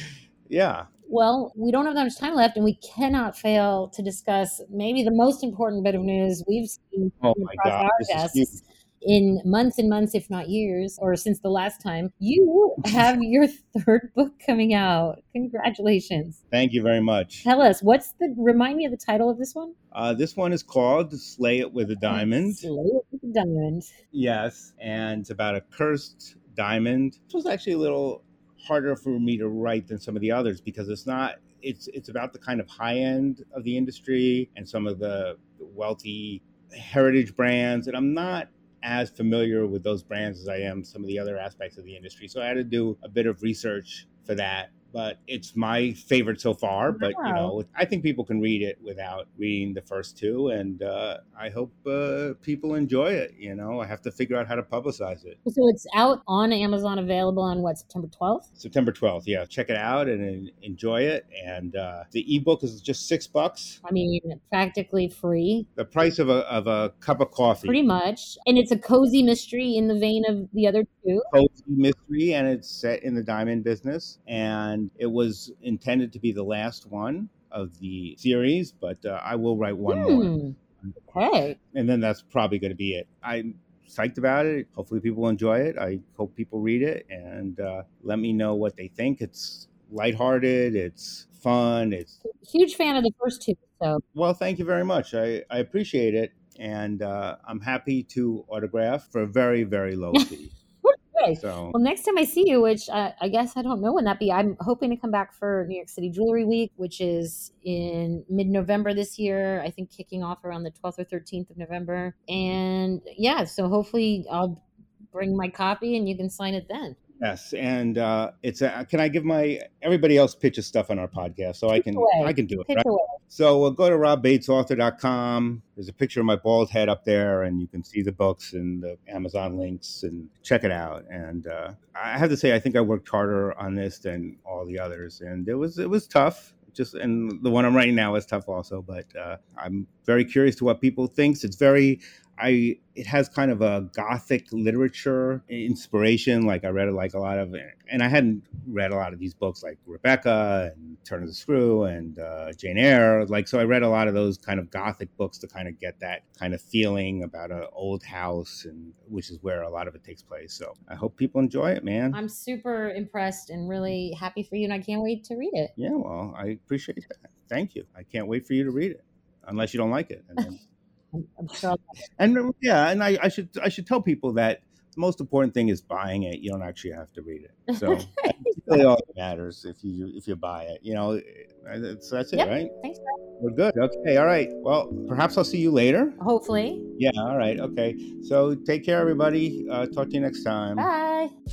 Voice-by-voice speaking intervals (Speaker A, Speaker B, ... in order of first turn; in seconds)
Speaker A: 0.5-0.9, 7.2-8.6, 16.5-17.5, 19.9-22.7, 24.1-55.4, 58.6-63.8, 65.8-67.8, 71.3-80.3, 81.6-92.2, 94.2-100.5, 101.4-101.8, 117.2-162.2, 165.8-170.6, 172.2-182.7, 183.4-186.2, 187.0-190.9
Speaker B: 1.1-16.4, 17.4-19.7, 22.1-23.9, 46.9-47.5, 55.5-58.5, 63.8-65.7, 67.6-71.3, 79.9-80.5, 81.1-81.6, 92.2-94.0, 100.8-114.6, 115.1-117.0, 121.8-123.2, 162.1-165.7, 171.1-171.9, 177.7-178.8, 182.3-183.2, 186.2-186.8, 190.8-191.3